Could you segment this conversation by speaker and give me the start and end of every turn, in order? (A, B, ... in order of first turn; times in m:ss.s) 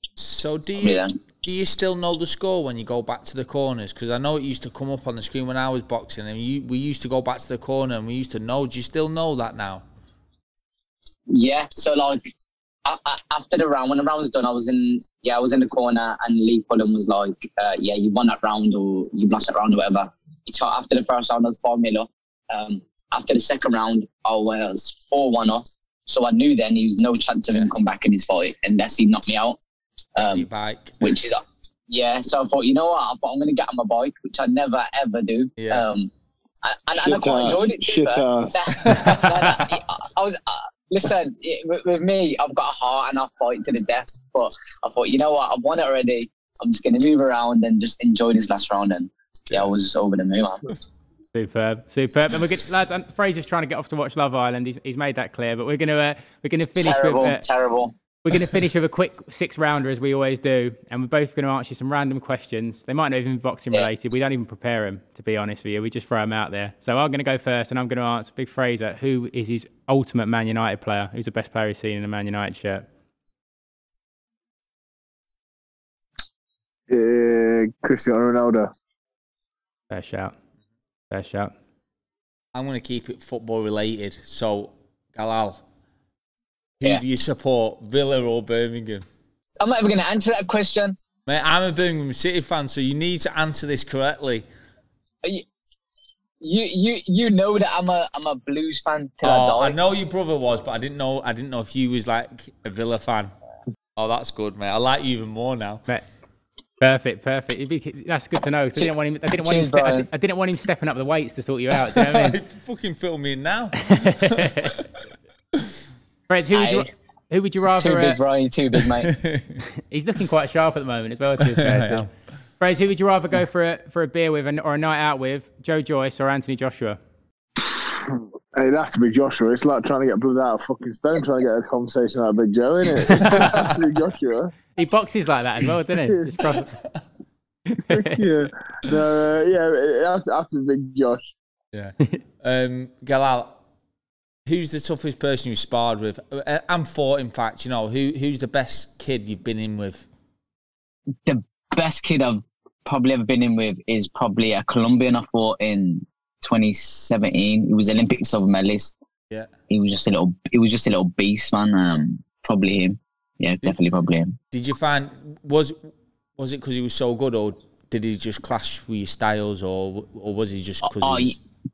0:00.2-0:09.8 A
0:00.8-0:01.1 B
0:11.3-0:12.2 B
0:12.8-0:29.6 B
0:30.2-0:30.5 B
0:30.2-0:31.0 A
0:31.0-0:36.1 B
0:35.6-0:35.8 A
0:36.6-0:50.7 B
0:37.0-0:39.0 C
0:38.9-0:39.5 A
0:51.3-0:57.4 D
0:56.8-0:57.9 B
0:58.2-1:12.9 D
1:16.9-1:18.7 C
1:19.9-1:20.4 D
1:21.1-1:21.5 D
1:22.6-1:25.6 A
1:26.8-1:29.0 A
1:29.6-1:31.0 B
1:31.3-1:34.5 A
1:36.4-1:39.8 B
1:39.2-1:43.3 A
1:44.0-1:45.8 A
1:46.8-1:52.4 D
1:48.8-1:50.1 B
1:52.0-1:54.8 A
1:53.9-1:54.8 D
1:56.3-1:58.2 D
1:56.5-1:56.9 B
1:57.8-1:59.1 B
1:58.8-1:59.6 A
1:59.9-2:02.1 D
2:01.4-2:02.1 A
2:02.6-2:07.0 D
2:07.6-2:14.5 C
2:13.1-2:13.5 D
2:13.3-2:13.7 A
2:14.8-2:16.7 D
2:17.7-2:18.2 D
2:17.9-2:21.3 C
2:21.7-2:23.6 A
2:24.5-2:30.1 A
2:31.2-2:39.0 B
2:39.7-2:44.4 B
2:44.5-2:45.8 A
2:46.4-2:51.4 A
2:50.8-2:51.4 B